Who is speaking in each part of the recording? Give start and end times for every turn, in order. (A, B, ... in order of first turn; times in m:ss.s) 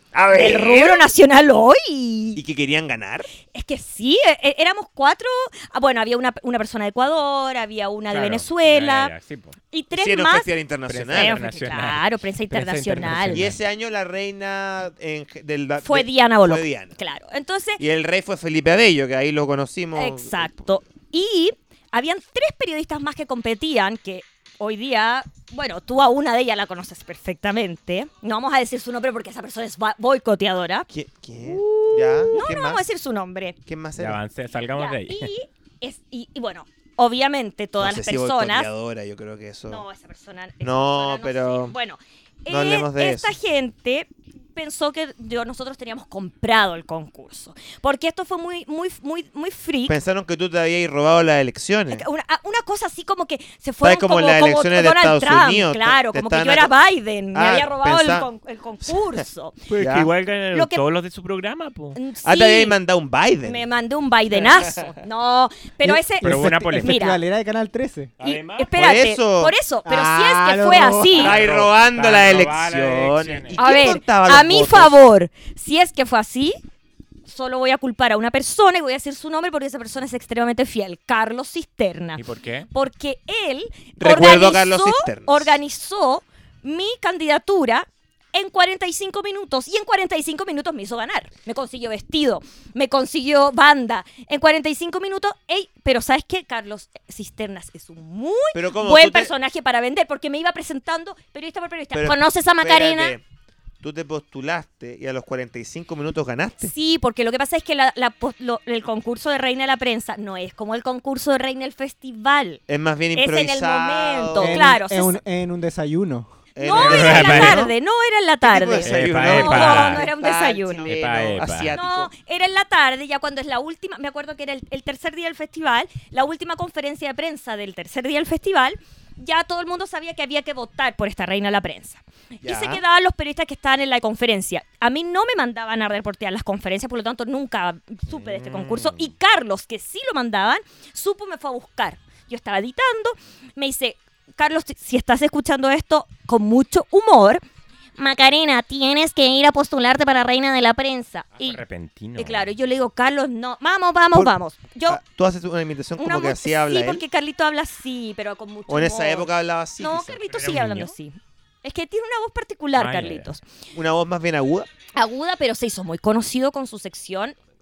0:00.1-0:01.1 A
0:00.3-0:02.4 B
0:02.4-0:03.3 A
0:03.5-0:09.1 B
0:08.1-0:09.6 C
0:09.7-0:10.5 B
0:09.9-0:11.4 A
0:10.9-0:13.6 C
0:11.1-0:13.4 B
0:13.3-0:17.0 A
0:15.8-0:17.8 B
0:17.8-0:20.5 A
0:20.0-0:30.9 B
0:30.9-0:32.8 A
0:31.5-0:33.6 B
0:33.7-0:34.2 A
0:34.0-0:35.3 C
0:34.8-0:38.7 B
0:37.8-0:39.8 A
0:39.7-0:49.9 B
0:40.6-0:41.8 A
0:42.5-0:43.4 A
0:49.9-0:52.0 A
0:51.9-0:59.6 B
0:53.8-0:56.7 A
0:57.3-0:58.3 A
0:59.7-1:02.0 C
0:59.8-1:00.1 A
1:00.5-1:00.8 B
1:02.0-1:02.8 B
1:02.2-1:03.6 A
1:03.4-1:07.2 B
1:05.8-1:08.1 D
1:06.2-1:07.0 C
1:08.2-1:08.8 C
1:08.2-1:11.4 B
1:08.8-1:09.6 A
1:09.8-1:11.4 D
1:11.1-1:15.0 A
1:11.1-1:13.6 C
1:13.6-1:16.6 B
1:17.3-1:43.2 B
1:22.2-1:22.7 C
1:24.0-1:25.6 A
1:38.5-1:39.3 A
1:41.9-1:43.2 A
1:43.8-1:46.7 A
1:46.6-1:52.6 B
1:52.7-1:54.7 A
1:53.2-1:55.2 B
1:54.4-1:56.4 D
1:56.6-1:57.7 A
1:56.6-2:00.9 B
1:56.6-1:57.7 C
1:58.4-2:02.1 A
1:58.8-2:00.1 C
2:00.8-2:01.7 C
2:01.7-2:27.4 B
2:12.4-2:12.8 A
2:18.1-2:19.1 C
2:28.0-2:31.6 B
2:31.4-2:32.5 C
2:32.2-2:35.0 B
2:34.9-2:37.0 A
2:36.0-2:43.4 B
2:38.7-2:40.2 A
2:40.3-2:40.9 C
2:42.8-2:43.3 C
2:43.7-2:44.7 A
2:44.9-2:47.4 B